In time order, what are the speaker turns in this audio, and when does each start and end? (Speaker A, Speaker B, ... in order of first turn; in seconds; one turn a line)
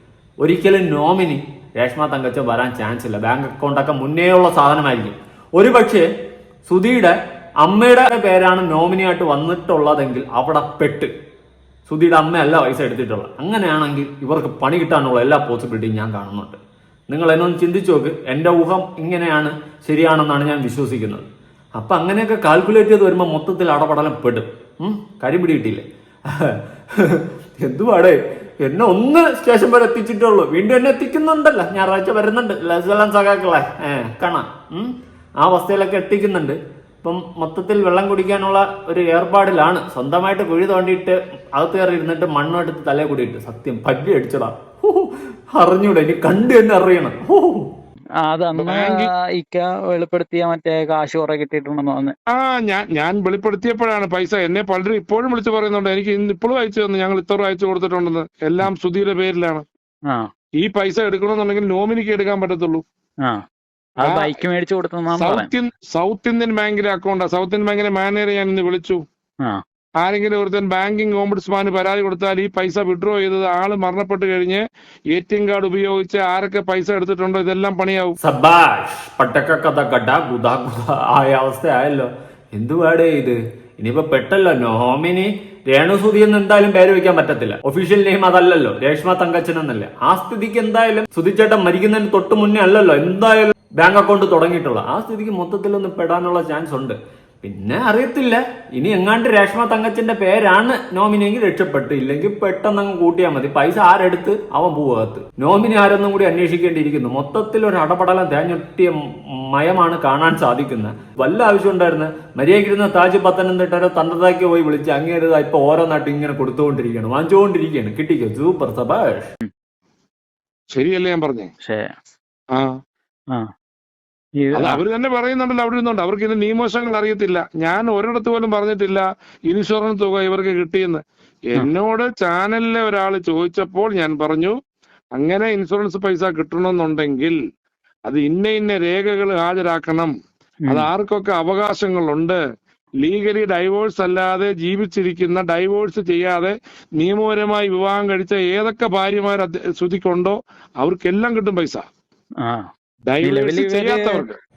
Speaker A: 0.4-6.0
Speaker A: 6.7-11.1
Speaker A: 11.9-16.6
Speaker A: 17.1-47.7
Speaker B: 48.2-52.1
Speaker C: 48.6-49.1
Speaker C: 52.3-59.6
Speaker C: 60.6-62.8
Speaker B: 64.0-65.5
Speaker C: 64.0-64.3
Speaker C: 65.2-69.0
Speaker C: 70.0-74.6
Speaker C: 75.1-78.2
Speaker A: 78.2-119.3
Speaker C: 120.7-121.5
Speaker B: 121.6-121.9
Speaker B: 124.4-124.8
Speaker C: 124.5-134.5
Speaker C: 135.2-137.4
Speaker C: 138.1-140.1
Speaker C: 140.7-142.4
Speaker C: 143.0-151.8
Speaker B: 152.4-152.7
Speaker C: 153.1-154.3
Speaker B: 153.2-154.2